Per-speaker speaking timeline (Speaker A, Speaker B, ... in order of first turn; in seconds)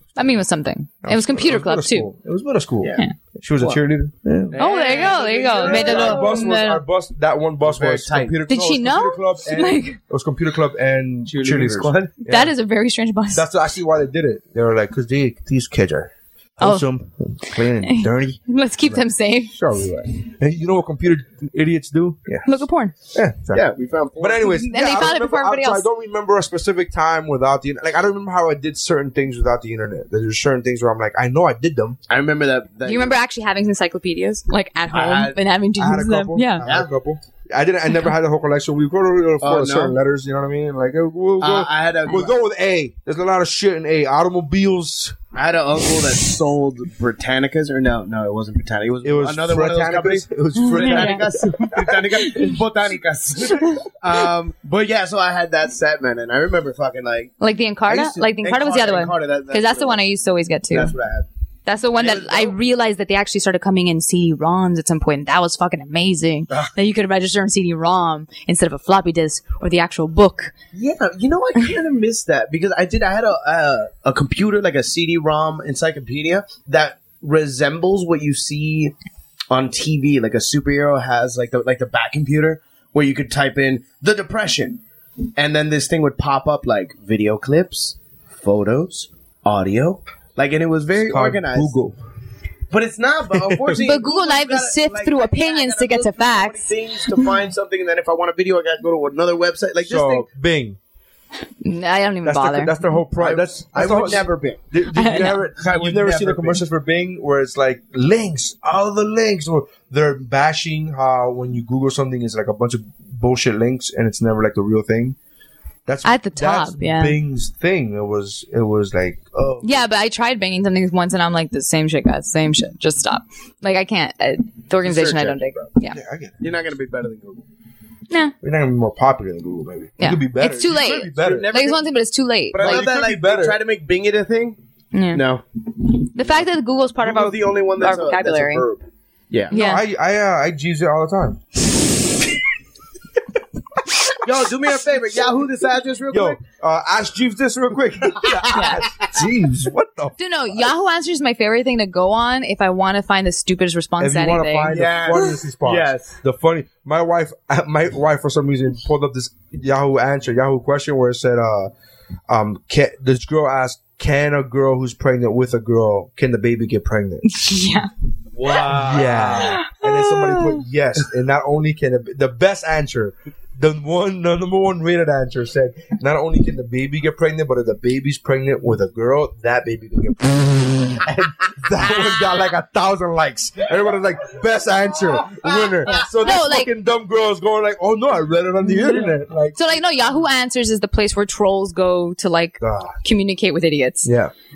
Speaker A: 0.2-2.1, 4.6-6.8, 8.5-10.0, 12.3-13.5, 16.6-16.9, 17.6-19.5, 22.5-22.9, 24.4-25.9, 32.9-36.6, 50.6-51.3, 52.3-52.6, 57.4-61.0, 61.7-70.5, 93.8-97.3, 101.6-102.9, 104.9-105.4, 116.0-117.2, 119.6-126.0, 130.0-132.9, 134.9-135.2, 136.1-138.7, 139.5-139.8, 148.5-148.8, 150.2-154.8, 167.2-167.9, 168.5-170.6, 185.5-186.7, 189.6-194.1
Speaker B: 1.0-4.6, 5.6-12.5, 13.3-23.7, 24.2-32.0, 35.8-45.2, 49.0-52.0, 91.1-92.0, 93.5-93.8, 99.8-100.8, 102.2-115.2, 115.9-119.8, 125.9-126.5, 128.4-131.5, 132.6-133.6, 139.5-141.4, 146.1-150.7, 154.0-161.7, 162.3-167.3, 168.5-189.6, 192.6-193.0, 194.1-194.3
Speaker C: 2.8-3.1, 4.5-6.4, 7.6-8.4, 11.3-12.1, 23.5-24.5, 32.1-33.1, 34.9-35.4, 36.6-36.9, 39.4-40.0, 41.4-42.3, 45.3-57.3, 57.9-60.0, 60.7-61.3, 62.0-62.6, 70.7-78.9, 79.5-84.8, 85.4-91.7, 92.7-100.3, 103.2-104.6, 105.6-106.6, 124.8-125.7, 126.4-127.4, 130.7-131.9, 132.5-134.6, 135.1-135.4, 137.0-139.6, 144.2-146.4, 154.7-156.2, 168.3-169.6, 185.3-185.9